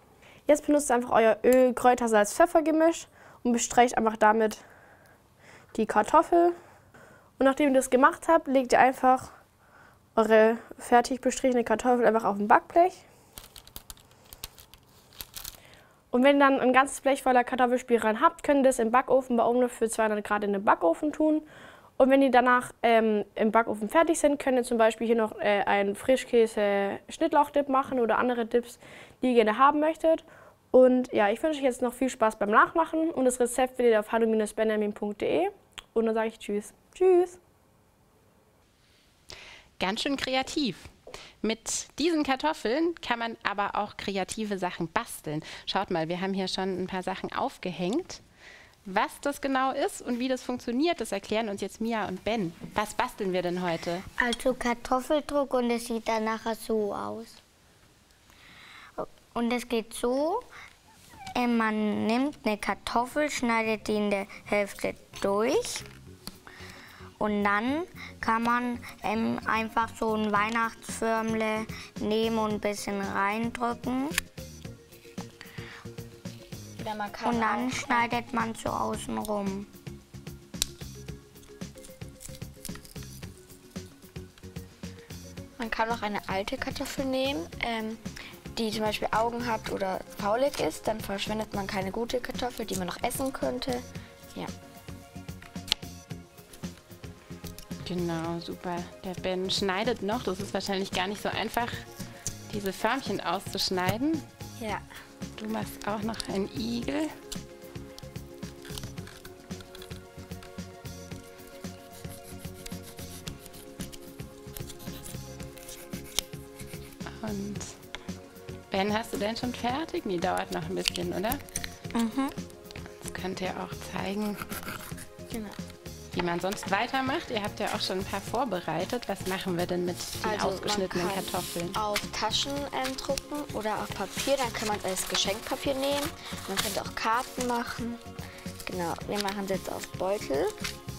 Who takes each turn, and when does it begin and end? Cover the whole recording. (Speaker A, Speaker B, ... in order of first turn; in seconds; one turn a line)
Speaker A: 0.5-4.6
Speaker A: 5.7-6.5
Speaker A: 7.4-9.3
Speaker A: 10.2-13.0
Speaker A: 16.1-21.4
Speaker A: 22.0-37.4
Speaker B: 39.8-40.9
Speaker B: 41.4-48.2
Speaker B: 48.8-54.0
Speaker C: 54.2-57.4
Speaker C: 59.0-60.4
Speaker C: 61.4-65.8
Speaker C: 67.2-74.2
Speaker D: 76.8-78.2
Speaker C: 77.2-79.7
Speaker D: 85.6-88.0
Speaker D: 88.5-94.5
Speaker B: 97.8-101.8
Speaker B: 102.5-104.2
Speaker B: 105.4-107.1
Speaker B: 117.2-117.7
Speaker B: 118.7-121.4
Speaker C: 121.9-122.3
Speaker B: 123.0-124.4
Speaker D: 125.3-125.6
Speaker B: 126.1-131.8
Speaker D: 130.2-138.0
Speaker D: 138.7-140.5